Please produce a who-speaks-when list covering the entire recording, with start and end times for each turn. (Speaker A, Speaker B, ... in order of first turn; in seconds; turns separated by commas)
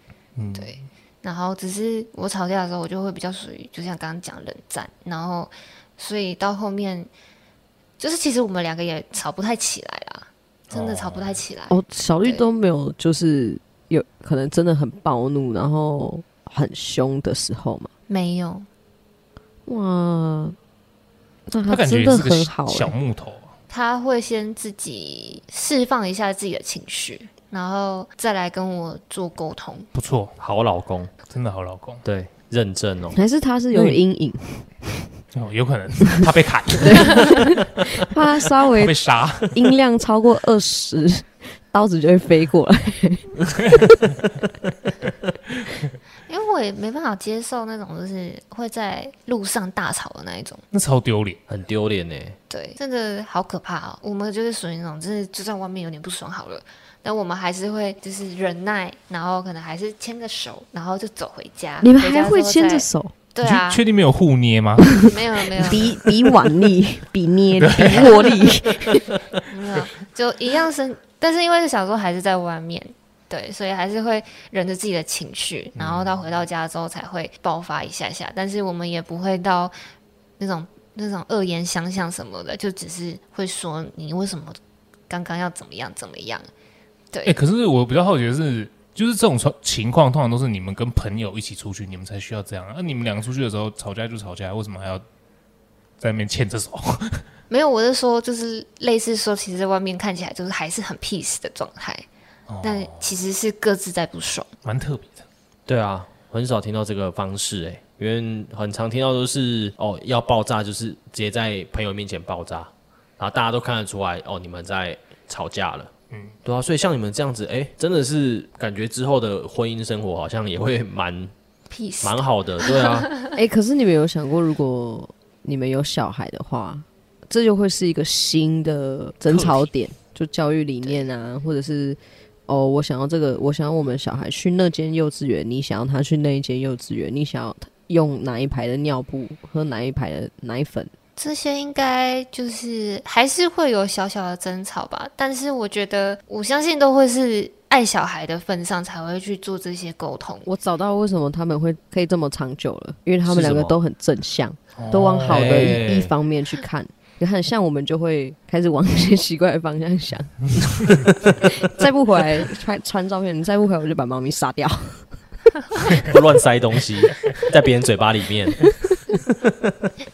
Speaker A: 0.3-0.9, Speaker B: 0.5-7.1, Speaker B: 8.0-12.5, Speaker C: 10.7-11.3, Speaker D: 11.7-17.9, Speaker B: 18.1-18.7, Speaker D: 19.6-20.6, Speaker D: 21.5-22.9, Speaker A: 21.7-23.5, Speaker B: 23.7-29.9, Speaker A: 29.9-30.4, Speaker C: 30.4-31.1, Speaker A: 31.3-32.0, Speaker C: 32.0-33.2, Speaker D: 33.1-35.0, Speaker A: 33.7-34.0, Speaker A: 35.3-37.5, Speaker D: 36.8-43.8, Speaker A: 38.8-39.5, Speaker B: 46.3-50.6, Speaker A: 50.7-51.4, Speaker C: 51.5-52.4, Speaker B: 52.5-63.8, Speaker D: 61.8-63.1, Speaker A: 63.4-65.0, Speaker D: 64.9-69.2, Speaker B: 65.0-66.0, Speaker A: 67.6-68.3, Speaker B: 67.8-68.5, Speaker B: 69.5-79.7, Speaker A: 75.8-76.2, Speaker B: 80.4-86.5, Speaker B: 87.1-87.4, Speaker A: 87.2-95.0, Speaker A: 96.0-97.2, Speaker B: 97.5-102.0, Speaker A: 102.5-103.0, Speaker B: 102.6-104.5, Speaker A: 104.6-105.2, Speaker C: 105.7-115.9, Speaker C: 116.4-121.3, Speaker B: 121.7-123.3, Speaker C: 122.0-123.1, Speaker D: 123.3-140.9, Speaker C: 129.3-129.6, Speaker B: 141.2-150.5, Speaker D: 150.4-165.1, Speaker C: 153.2-153.8, Speaker A: 154.8-155.8, Speaker C: 155.2-156.1, Speaker C: 166.0-168.7, Speaker C: 169.4-169.9